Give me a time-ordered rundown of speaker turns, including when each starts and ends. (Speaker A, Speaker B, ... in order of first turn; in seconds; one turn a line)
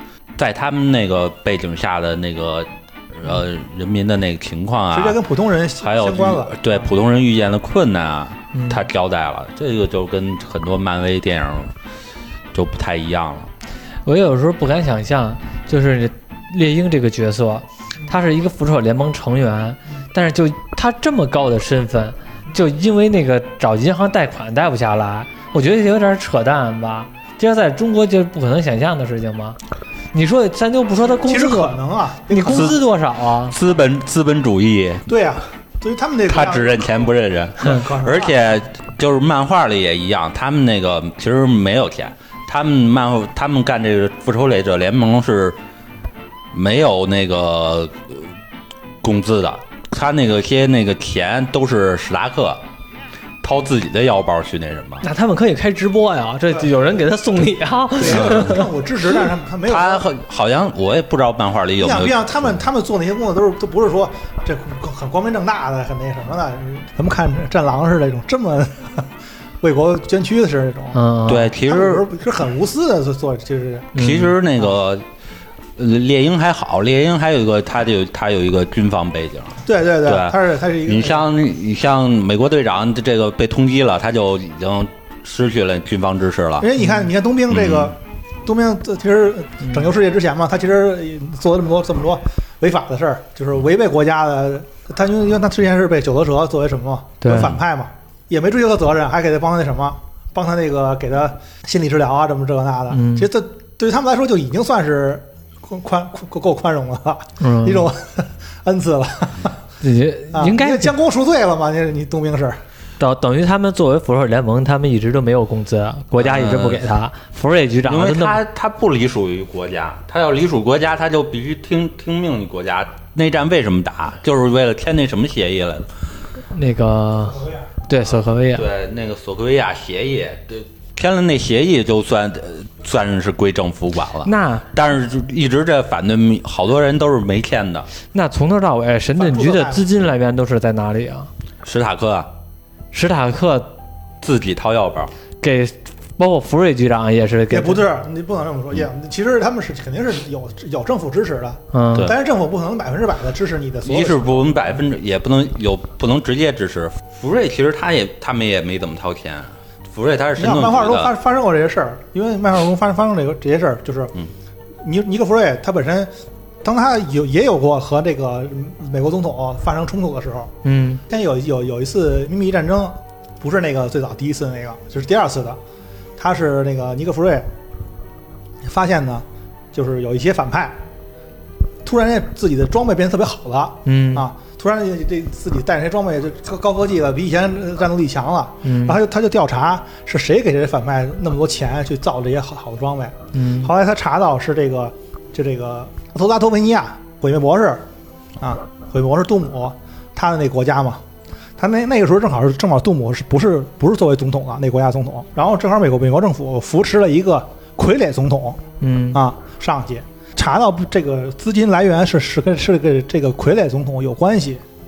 Speaker A: 0.4-5.2
Speaker B: 4.9-6.9
Speaker A: 5.8-11.7
Speaker C: 8.5-8.8
Speaker A: 12.5-13.5
Speaker C: 14.1-29.6
Speaker C: 30.1-31.8
Speaker B: 31.3-32.8
Speaker C: 32.3-33.5
Speaker A: 32.5-32.8
Speaker A: 33.5-35.1
Speaker B: 35.1-38.4
Speaker A: 36.3-45.6
Speaker A: 46.5-48.3
Speaker A: 49.0-52.6
Speaker A: 53.4-55.0
Speaker C: 55.0-58.7
Speaker B: 58.0-60.1
Speaker A: 58.0-58.6
Speaker A: 59.7-62.6
Speaker B: 61.8-69.1
Speaker B: 69.6-71.0
Speaker C: 70.9-71.5
Speaker A: 71.3-72.1
Speaker B: 71.5-74.0
Speaker C: 74.0-74.3
Speaker A: 74.0-75.0
Speaker A: 75.8-86.7
Speaker B: 79.6-81.3
Speaker B: 86.6-109.5
Speaker A: 87.5-88.0
Speaker C: 97.2-97.5
Speaker C: 102.9-103.3
Speaker C: 107.4-107.9
Speaker C: 109.8-110.9
Speaker B: 110.3-112.6
Speaker C: 113.0-118.4
Speaker A: 116.2-116.9
Speaker A: 117.8-125.9
Speaker C: 126.5-128.7
Speaker A: 128.5-137.9
Speaker C: 134.2-134.7
Speaker C: 138.1-141.3
Speaker B: 139.2-139.9
Speaker A: 141.6-142.3
Speaker C: 142.9-143.7
Speaker A: 144.2-145.1
Speaker C: 145.4-147.8
Speaker B: 147.5-154.7
Speaker C: 151.7-152.1
Speaker A: 153.8-161.1
Speaker B: 160.4-164.1
Speaker B: 164.8-166.1
Speaker B: 166.6-170.5
Speaker C: 170.6-171.0
Speaker B: 171.1-175.6
Speaker B: 176.2-177.5
Speaker B: 178.6-180.8
Speaker B: 181.8-197.9
Speaker C: 183.8-184.3
Speaker C: 188.6-189.0
Speaker C: 193.3-193.7
Speaker B: 198.4-201.0
Speaker B: 201.6-208.6
Speaker C: 208.8-209.2
Speaker B: 209.1-214.6